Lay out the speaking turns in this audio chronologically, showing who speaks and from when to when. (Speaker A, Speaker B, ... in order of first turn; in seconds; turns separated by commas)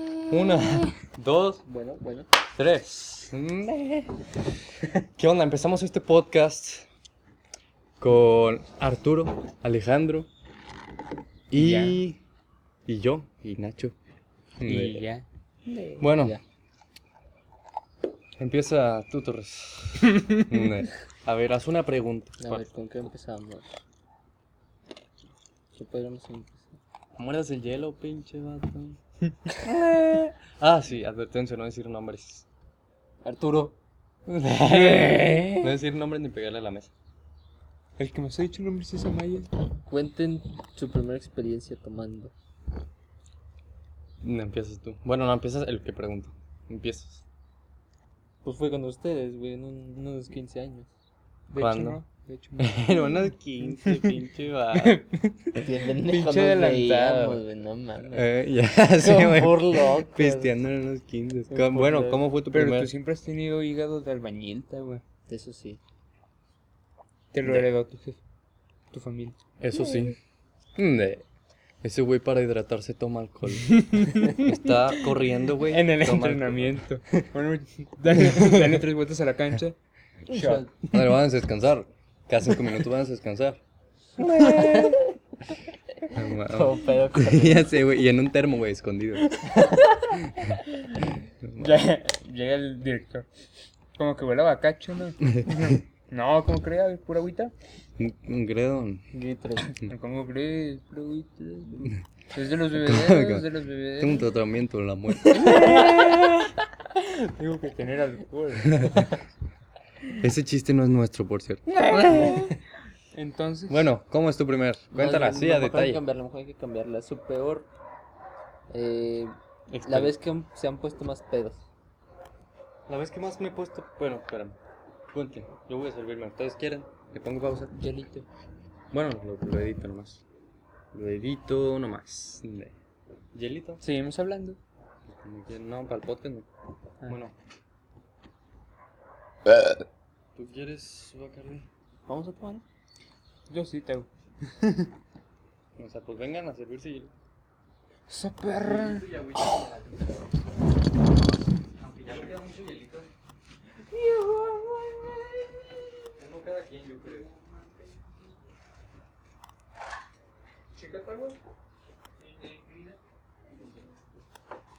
Speaker A: 0.3-1.6, Speaker B: 1.6-2.3, Speaker A: 2.5-4.2, Speaker A: 4.8-6.9, Speaker A: 8.0-10.3, Speaker A: 11.5-12.2, Speaker C: 11.5-12.0, Speaker A: 12.9-13.9, Speaker A: 14.6-15.0, Speaker C: 14.6-15.2, Speaker B: 15.7-16.4, Speaker A: 16.0-16.4, Speaker A: 18.4-22.6, Speaker C: 20.2-20.4, Speaker B: 22.4-23.8, Speaker B: 25.8-26.8, Speaker A: 27.2-29.0, Speaker A: 29.5-32.4, Speaker B: 33.2-33.8, Speaker A: 34.3-36.9, Speaker B: 34.8-35.6, Speaker C: 38.0-39.5, Speaker B: 39.9-42.3, Speaker A: 44.2-47.2, Speaker B: 48.4-50.9, Speaker C: 51.5-52.8, Speaker A: 51.6-52.0, Speaker A: 52.6-55.0, Speaker C: 53.8-54.2, Speaker C: 54.7-57.4, Speaker B: 55.6-58.3, Speaker A: 58.1-62.9, Speaker B: 59.0-60.5, Speaker B: 61.5-62.2, Speaker C: 62.5-65.0, Speaker B: 65.3-65.8, Speaker C: 67.3-68.2, Speaker C: 68.9-69.4, Speaker A: 69.6-70.2, Speaker A: 70.8-71.2, Speaker A: 71.8-76.8, Speaker C: 73.6-79.8, Speaker A: 78.1-78.8, Speaker B: 80.3-80.9, Speaker C: 80.3-80.8, Speaker A: 80.9-83.6, Speaker A: 84.2-85.1, Speaker B: 84.4-84.9, Speaker A: 86.1-89.5, Speaker B: 86.4-87.7, Speaker B: 89.6-90.1, Speaker A: 91.4-91.8, Speaker C: 91.6-93.2, Speaker C: 94.0-97.5, Speaker A: 98.0-99.1, Speaker B: 99.1-99.7, Speaker C: 99.8-104.3, Speaker A: 102.7-106.5, Speaker C: 105.4-105.9, Speaker C: 107.0-109.1, Speaker A: 108.7-109.0, Speaker A: 110.1-112.5, Speaker C: 113.1-113.9, Speaker A: 113.7-116.0, Speaker B: 114.9-117.7, Speaker B: 118.7-121.7, Speaker A: 119.7-120.1, Speaker A: 122.9-124.6, Speaker A: 125.1-127.7, Speaker C: 127.7-128.3, Speaker A: 128.9-130.2, Speaker A: 130.9-132.7, Speaker A: 133.3-133.8, Speaker C: 133.8-134.6, Speaker A: 135.1-136.5, Speaker A: 137.1-137.3, Speaker A: 140.3-141.7, Speaker B: 142.1-142.6, Speaker C: 143.5-144.1, Speaker A: 145.8-147.1, Speaker C: 148.1-149.1, Speaker A: 148.6-150.2, Speaker A: 151.8-153.1, Speaker A: 153.9-158.1, Speaker A: 160.8-161.4